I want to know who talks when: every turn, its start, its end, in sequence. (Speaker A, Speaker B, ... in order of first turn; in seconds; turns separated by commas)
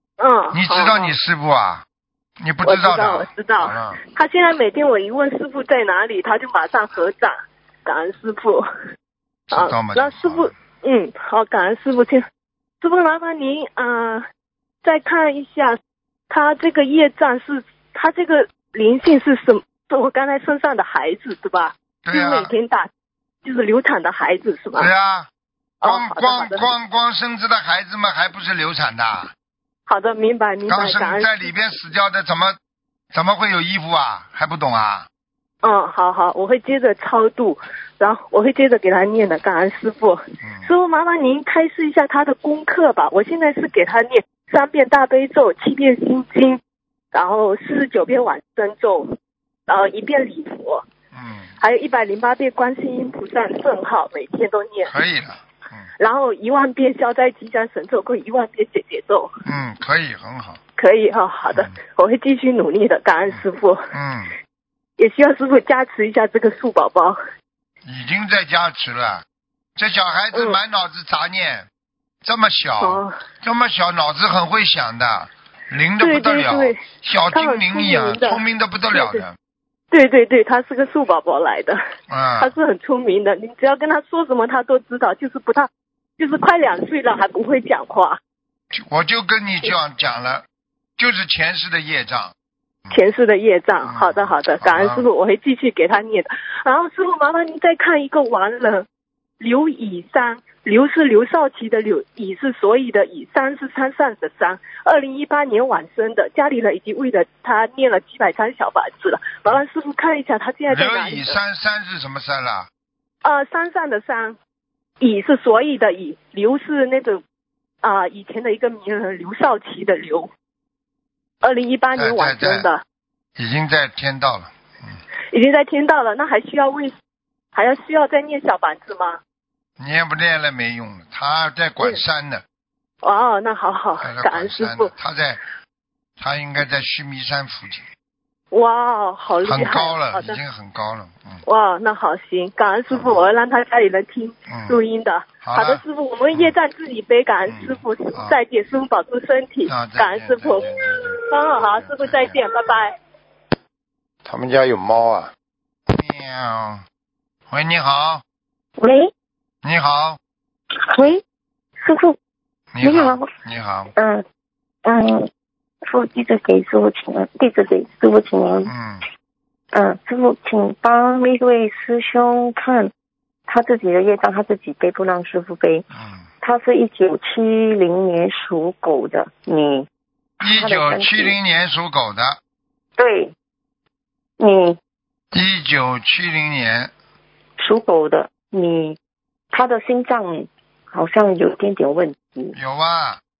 Speaker A: 0.2-1.1, Speaker B: 0.5-1.8, Speaker B: 2.4-4.0, Speaker A: 2.6-8.7, Speaker B: 9.5-10.5, Speaker A: 9.5-12.2, Speaker A: 12.8-14.2, Speaker A: 14.8-15.8, Speaker A: 16.3-22.9, Speaker B: 22.1-22.5, Speaker A: 23.4-24.9, Speaker B: 24.7-25.3, Speaker A: 25.8-26.7, Speaker B: 25.8-29.3, Speaker A: 29.9-31.5, Speaker B: 30.7-32.6, Speaker B: 33.1-35.1, Speaker A: 35.6-46.6, Speaker B: 40.4-40.7, Speaker A: 47.1-49.1, Speaker A: 49.7-50.8, Speaker B: 51.1-51.5, Speaker A: 51.6-54.9, Speaker B: 54.8-55.9, Speaker A: 56.0-59.3, Speaker B: 59.4-60.6, Speaker A: 60.8-63.8, Speaker B: 63.9-64.3, Speaker A: 65.0-67.2, Speaker B: 67.8-69.2, Speaker B: 69.8-71.7, Speaker B: 72.2-79.3, Speaker A: 72.8-73.1, Speaker A: 76.0-79.2, Speaker A: 79.9-81.8, Speaker B: 82.1-82.5, Speaker A: 82.4-88.2, Speaker B: 88.7-90.4, Speaker B: 91.0-92.3, Speaker A: 92.9-98.8, Speaker B: 93.8-95.0, Speaker A: 99.4-111.4, Speaker B: 110.7-112.7, Speaker A: 113.2-114.4, Speaker A: 115.0-117.2, Speaker A: 117.8-120.3, Speaker A: 121.4-122.8, Speaker B: 121.9-122.7, Speaker B: 123.4-125.0, Speaker A: 125.3-126.9, Speaker A: 127.5-129.2, Speaker B: 129.8-132.4, Speaker A: 133.0-134.9, Speaker B: 134.0-135.4, Speaker B: 136.2-137.8, Speaker A: 138.5-140.4, Speaker B: 139.4-141.4, Speaker A: 141.4-150.7, Speaker B: 142.9-143.2, Speaker B: 144.5-144.8, Speaker B: 145.4-145.8, Speaker B: 147.5-148.4, Speaker B: 149.7-152.4, Speaker A: 151.3-152.9, Speaker B: 154.2-155.3, Speaker B: 155.9-156.8, Speaker B: 157.5-158.2, Speaker C: 158.8-159.1, Speaker B: 159.6-160.2, Speaker C: 160.8-161.2, Speaker C: 161.8-162.2, Speaker B: 162.7-163.9, Speaker C: 162.8-163.3, Speaker C: 164.0-164.2, Speaker C: 164.8-165.3, Speaker C: 165.9-168.7, Speaker B: 168.7-169.0, Speaker C: 169.7-172.9, Speaker C: 173.5-175.8, Speaker B: 175.9-176.2, Speaker C: 176.4-179.9, Speaker B: 180.4-182.4, Speaker C: 180.4-181.3, Speaker C: 183.0-183.3, Speaker C: 184.4-184.8, Speaker B: 185.3-186.9, Speaker C: 187.6-189.0, Speaker C: 189.5-192.5, Speaker B: 192.5-193.2